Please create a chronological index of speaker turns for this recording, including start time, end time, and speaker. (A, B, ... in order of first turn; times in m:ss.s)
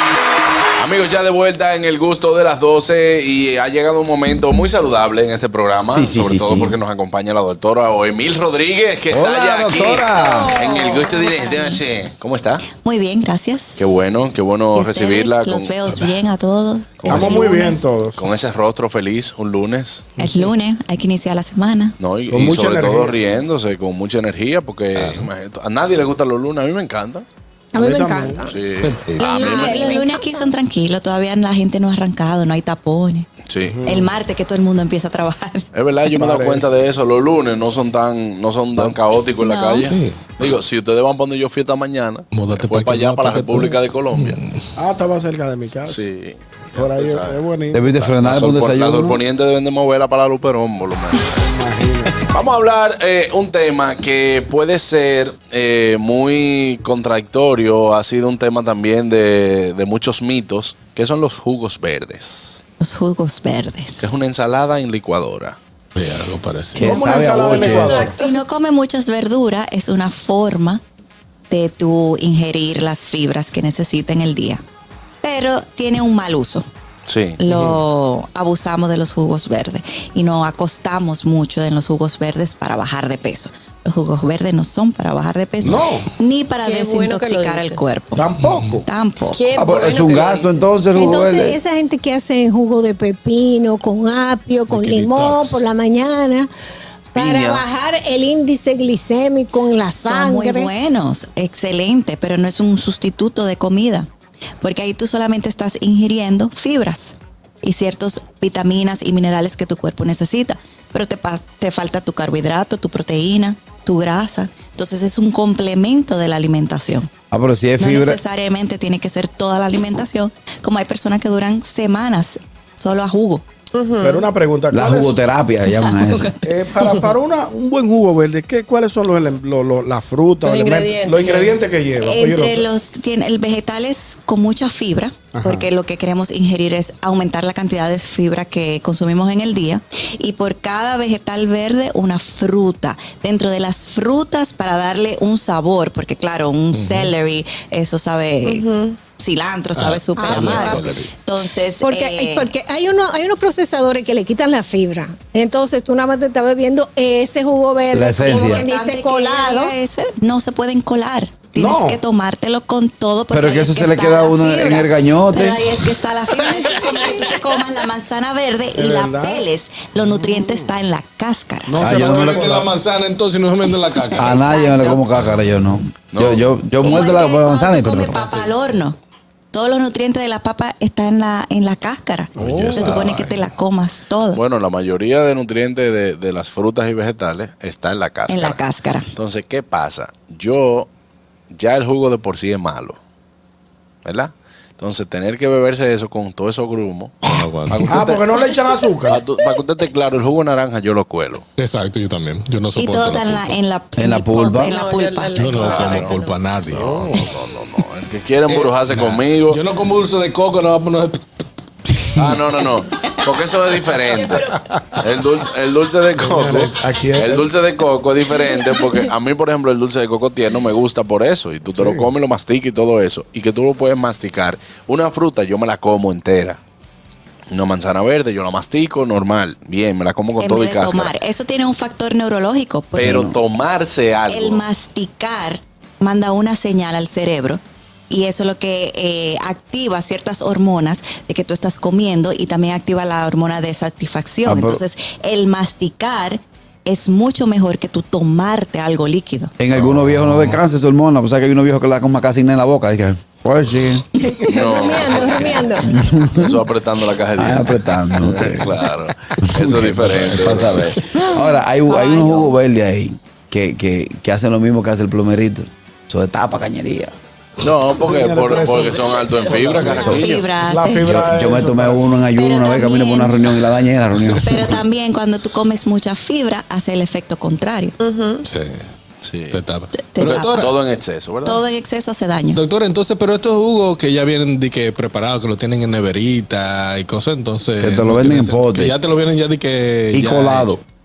0:00.8-0:12.7 A
0:05.9-0:06.8 B
0:09.1-0:10.6 B
0:10.1-0:11.1 C
0:10.7-0:11.8 D
0:12.7-0:13.9 D
0:13.8-0:15.8 A
0:14.7-0:17.8 D
0:17.0-0:17.6 A
0:17.1-0:18.2 E
0:17.1-0:17.4 F
0:18.1-0:20.1 A
0:20.2-0:22.0 D
0:22.0-0:27.2 A
0:22.3-0:23.3 E
0:25.0-0:25.3 F
0:27.7-0:28.6 C
0:27.8-0:28.5 E
0:28.5-0:30.0 A
0:28.8-0:29.2 F
0:29.2-0:33.3 D
0:29.2-0:30.5 C
0:33.5-0:33.8 A
0:33.6-0:34.1 E
0:33.8-0:35.7 D
0:35.7-0:44.4 A
0:36.1-0:36.7 E
0:39.4-0:39.9 D
0:39.8-0:40.2 F
0:42.3-0:44.7 F
0:44.8-0:46.0 E
0:45.8-0:47.4 A
0:46.7-0:47.9 E
0:47.7-0:49.2 B
0:47.9-0:51.4 A
0:51.3-0:52.2 E
0:52.3-1:02.6 A
1:02.8-1:04.1 D
1:04.0-1:05.6 A
1:05.9-1:07.0 F
1:06.7-1:08.1 B
1:06.7-1:08.2 E
1:08.0-1:10.8 D
1:11.5-1:14.6 D
1:15.2-1:16.7 D
1:17.1-1:17.4 A
1:17.4-1:28.3 D
1:25.6-1:26.1 E
1:26.6-1:27.8 G
1:28.1-1:28.8 E
1:28.4-1:28.8 F
1:28.8-1:29.4 D
1:29.3-1:30.6 G
1:29.6-1:31.6 B
1:30.9-1:36.5 C
1:34.7-1:35.6 F
1:37.1-1:40.7 C
1:37.1-1:37.6 A
1:39.9-1:44.1 D
1:44.6-1:57.1 D
1:57.3-1:58.2 B
1:57.8-2:03.4 D
2:03.7-2:04.3 G
2:04.0-2:05.2 E
2:04.7-2:06.4 B
2:05.7-2:07.1 D
2:06.4-2:12.7 E
2:10.4-2:11.6 G
2:12.0-2:32.5 D
2:15.3-2:15.7 E
2:26.7-2:27.2 F
2:28.4-2:29.0 G
2:29.7-2:31.1 F
2:30.2-2:30.9 C
2:31.8-2:39.8 C
2:37.9-2:38.7 B
2:38.2-2:51.9 D
2:41.5-2:42.0 E
2:43.3-2:45.7 B
2:48.7-2:50.7 E
2:51.7-2:52.8 E
2:51.8-2:55.6 F
2:51.8-2:52.5 B
2:54.0-2:55.0 D
2:54.1-2:58.5 B
2:56.1-2:56.5 A
2:56.8-2:59.0 D
2:59.5-3:04.4 D
3:02.4-3:03.5 F
3:02.4-3:03.2 A
3:04.3-3:08.6 A
3:08.3-3:09.1 D
3:09.2-3:10.9 A
3:11.5-3:13.0 A
3:14.0-3:18.3 A
3:17.2-3:18.1 F
3:17.9-3:19.2 E
3:19.1-3:21.5 A
3:21.6-3:23.6 F
3:22.7-3:25.6 D
3:24.0-3:24.8 B
3:24.5-3:26.4 G
3:25.4-3:27.3 F
3:25.5-3:26.2 A
3:26.7-3:29.6 A
3:26.8-3:27.2 E
3:28.5-3:31.2 F
3:32.2-3:46.6 A
3:36.2-3:37.5 E
3:41.8-3:42.1 E
3:47.5-3:51.2 A
3:50.4-3:53.2 D
3:52.9-3:54.7 A
3:53.0-3:53.4 B
3:54.3-4:09.5 D
4:04.4-4:04.8 B
4:09.6-4:14.1 B
4:09.8-4:10.6 F
4:14.3-4:15.9 C
4:14.5-4:21.0 A
4:15.8-4:16.7 B
4:17.3-4:18.7 B
4:19.4-4:27.1 B
4:21.8-4:22.6 G
4:27.6-4:30.4 A
4:28.0-4:32.0 E
4:28.8-4:29.1 D
4:29.7-4:31.2 D
4:31.0-4:34.8 B
4:32.3-4:33.7 D
4:34.2-4:34.6 F
4:34.4-4:38.0 D
4:38.0-4:38.4 G
4:38.4-4:38.8 F
4:39.2-4:39.6 A
4:39.5-4:40.7 F
4:39.9-4:40.7 D
4:40.2-4:41.6 A
4:41.4-4:42.6 D
4:42.5-4:50.8 F
4:47.8-4:49.0 B
4:50.1-4:50.8 B